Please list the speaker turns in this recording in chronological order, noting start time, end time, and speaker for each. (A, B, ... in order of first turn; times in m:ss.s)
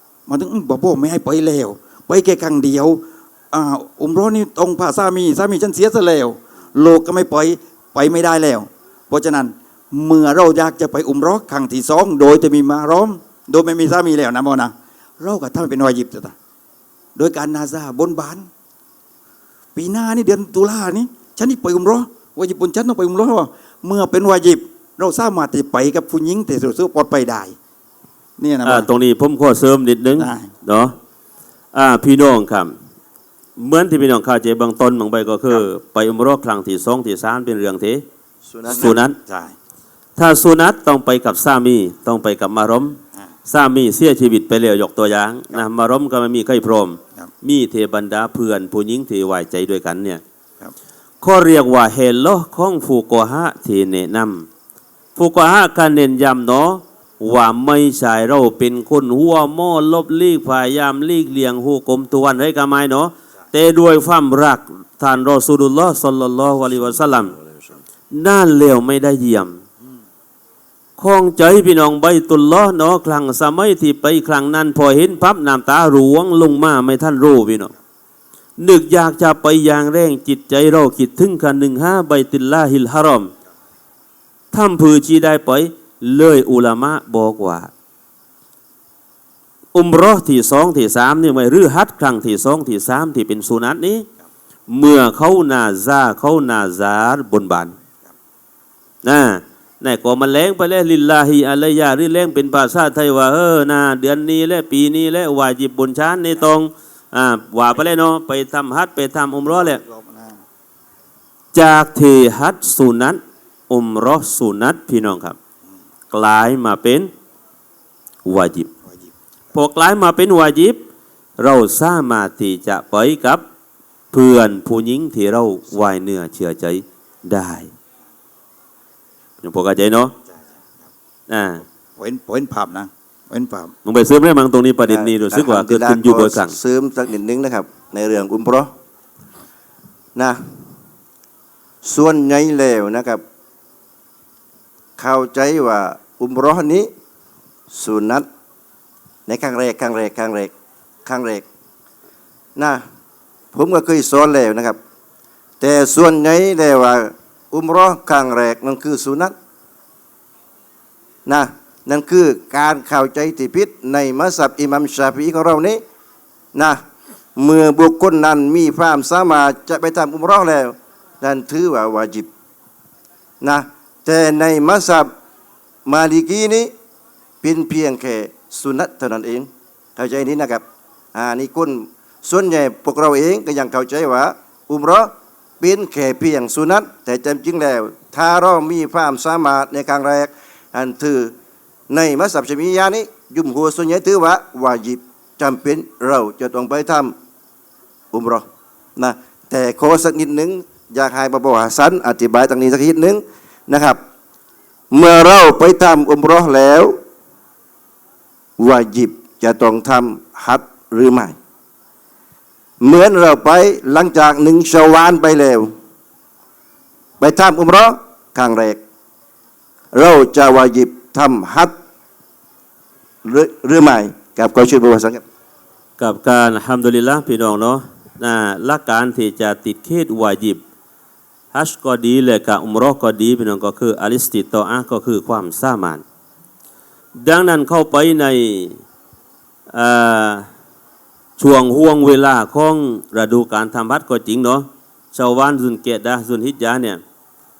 0:00.3-0:03.0 A
0:03.5-0:16.3 A
0:17.2-0:18.5 A
0:19.8-0:27.6 A
0:28.4-0:28.9 A
0:28.6-0:30.9 B
0:30.2-0:30.5 A
0:31.7-0:32.7 B
0:33.6-0:38.0 B
0:38.5-0:38.9 C
0:38.7-0:39.2 B
0:38.7-0:39.5 A
0:40.2-0:50.2 B
0:51.2-0:54.5 B
0:55.2-1:07.4 B
1:08.1-1:09.6 B
1:11.0-1:17.7 B
1:18.6-1:23.3 B
1:24.5-1:27.7 B
1:29.7-1:34.1 B
1:34.7-1:37.7 B
1:39.0-1:49.8 B
1:49.5-1:50.4 A
1:51.5-1:55.4 B
1:56.1-1:57.1 B
1:58.2-1:58.7 B
1:59.5-2:00.8 B
2:01.4-2:03.4 B
2:04.1-2:07.7 B
2:09.4-2:10.1 B
2:11.3-2:11.6 B
2:12.0-2:13.7 A
2:13.8-2:16.5 B
2:14.9-2:18.7 C
2:21.8-2:23.2 C
2:25.0-2:26.9 C
2:27.7-2:28.2 C
2:29.3-2:30.5 C
2:31.0-2:31.4 C
2:32.6-2:32.8 C
2:33.5-2:34.8 C
2:35.6-2:39.3 C
2:41.2-2:45.8 C
2:46.5-2:46.8 C
2:47.4-2:52.3 C
2:53.4-2:55.1 C
2:55.8-2:56.7 C
2:57.4-3:11.3 C
3:11.9-3:17.1 C
3:18.1-3:18.4 C
3:19.0-3:24.0 C
3:24.9-3:27.0 C
3:28.6-3:31.3 C
3:32.8-3:35.7 C
3:37.2-3:38.8 C
3:39.9-3:41.7 C
3:43.2-3:45.2 C
3:46.0-3:50.6 B
3:51.5-3:56.0 B
3:57.1-3:58.8 B
3:59.7-4:00.5 B
4:01.4-4:07.0 B